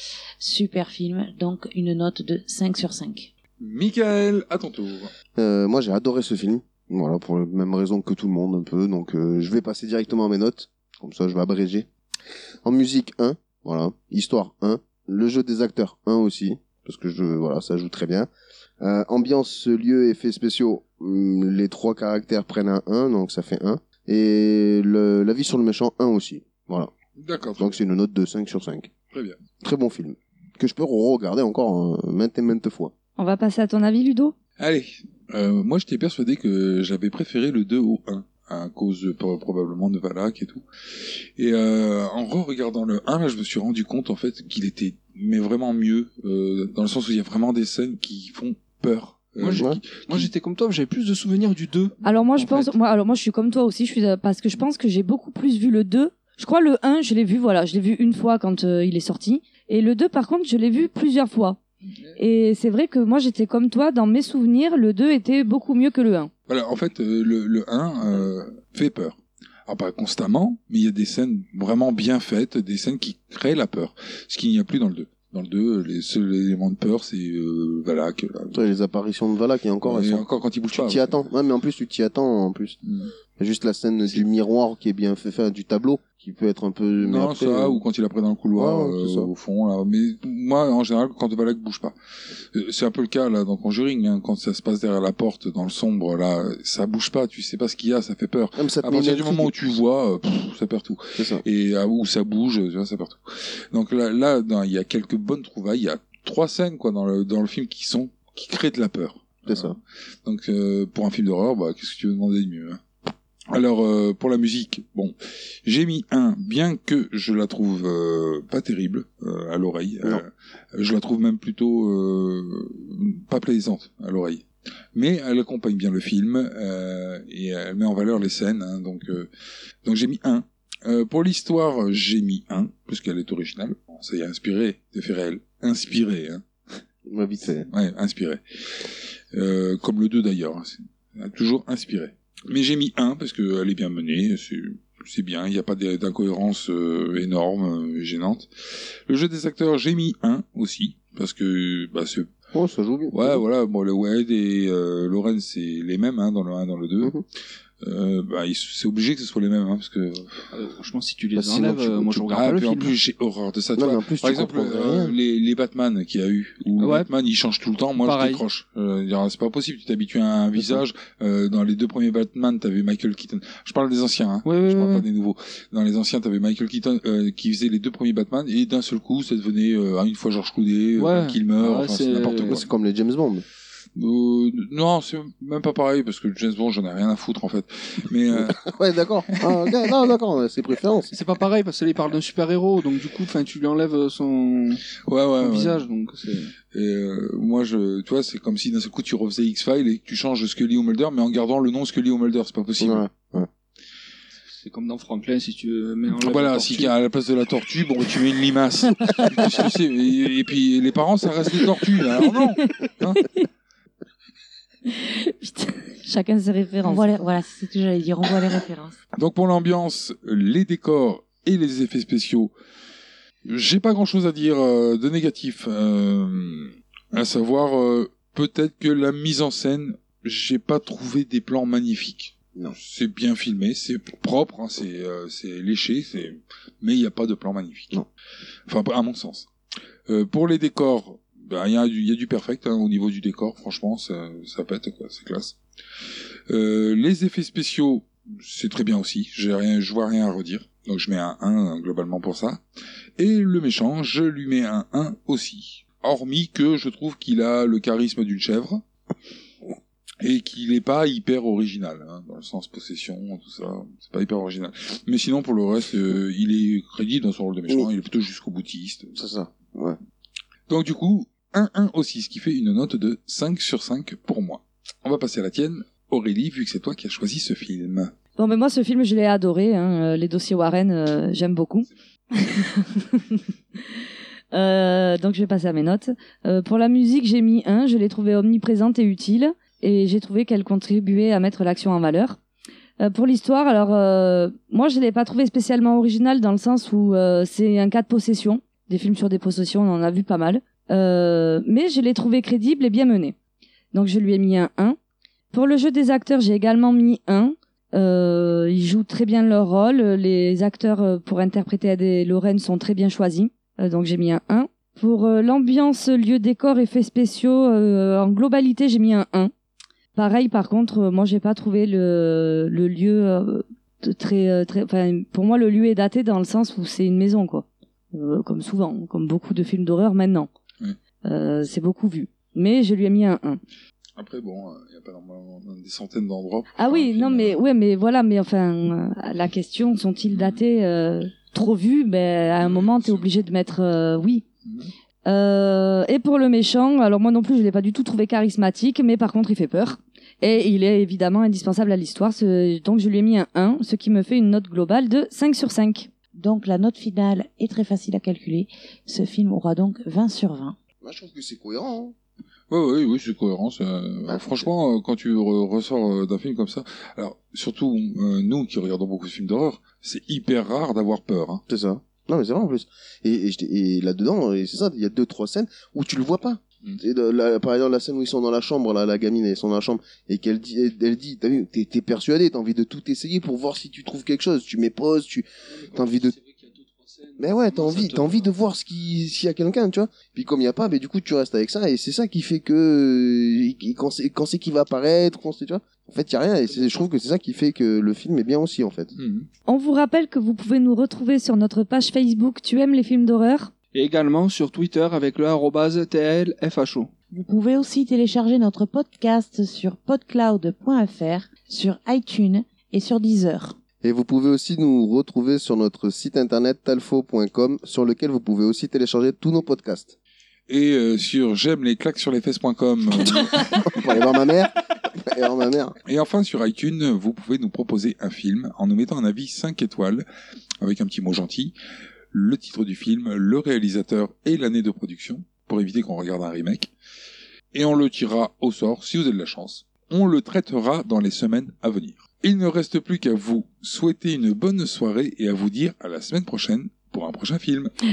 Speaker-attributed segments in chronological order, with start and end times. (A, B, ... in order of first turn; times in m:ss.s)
0:00.4-0:03.3 A
0:03.6-0:05.1 B
0:05.4-0:11.9 C
0:12.6-0:26.9 C
0:27.2-0:27.8 B
0:27.6-0:28.9 C
0:29.1-0:29.4 B
0:29.6-0:32.9 C
0:33.2-0:34.3 D
0:34.6-0:40.6 B
0:41.4-0:50.3 B
0:49.4-0:52.7 E
0:49.5-0:49.8 C
0:52.0-1:01.6 D
1:02.2-1:06.3 D
1:06.5-1:18.7 B
1:18.5-1:22.8 C
1:19.8-1:21.2 B
1:22.8-1:23.1 B
1:23.4-1:27.8 C
1:27.0-1:31.9 B
1:28.6-1:29.3 C
1:32.5-1:52.8 B
1:38.6-1:39.8 C
1:41.2-1:41.4 C
1:49.5-1:49.8 C
1:53.5-2:09.3 B
2:09.8-2:16.4 B
2:17.0-2:17.7 C
2:17.7-2:32.3 B
2:32.5-2:33.4 C
2:33.1-2:37.2 B
2:37.8-2:40.5 B
2:40.5-2:42.9 E
2:41.4-2:42.3 C
2:42.3-3:02.7 B
2:43.8-2:45.2 C
2:46.8-2:47.1 E
2:48.0-2:48.4 E
2:50.6-2:50.8 C
2:54.4-2:55.0 E
3:01.0-3:02.6 E
3:02.5-3:03.4 C
3:04.0-3:08.6 B
3:08.3-3:11.1 C
3:11.1-3:14.8 E
3:15.1-3:15.8 B
3:15.4-3:16.5 E
3:16.7-3:23.1 B
3:22.8-3:23.5 C
3:24.5-3:26.9 E
3:26.1-3:33.2 B
3:32.3-3:33.5 D
3:34.9-3:37.0 D
3:36.8-3:39.0 A
3:39.2-3:42.5 B
3:43.4-3:58.0 B
3:58.7-3:59.5 B
4:00.1-4:05.6 B
4:06.5-4:12.6 B
4:13.2-4:18.8 B
4:20.2-4:29.1 B
4:29.1-4:30.0 C
4:30.7-4:38.1 B
4:38.4-4:43.4 D
4:44.5-4:52.4 D
4:53.0-5:03.3 D
5:03.9-5:05.0 D
5:05.5-5:19.5 D
5:20.1-5:30.5 D
5:31.2-5:33.6 D
5:34.2-5:37.6 B
5:36.8-5:44.4 D
5:40.3-5:40.6 B
5:42.6-5:43.3 B
5:44.6-5:44.9 B
5:45.2-5:56.1 D
5:56.3-6:00.8 A
6:01.0-6:02.1 C
6:02.7-6:11.6 B
6:04.3-6:04.7 C
6:11.7-6:26.3 C
6:25.7-6:28.5 E
6:27.4-6:39.1 C
6:39.2-6:39.5 B
6:39.7-6:43.7 D
6:43.9-6:47.1 E
6:47.3-6:53.8 A
6:54.0-7:00.1 C
7:00.7-7:04.0 B
7:03.2-7:05.9 C
7:06.1-7:10.2 B
7:10.8-7:11.7 B
7:12.3-7:16.9 B
7:17.7-7:27.9 B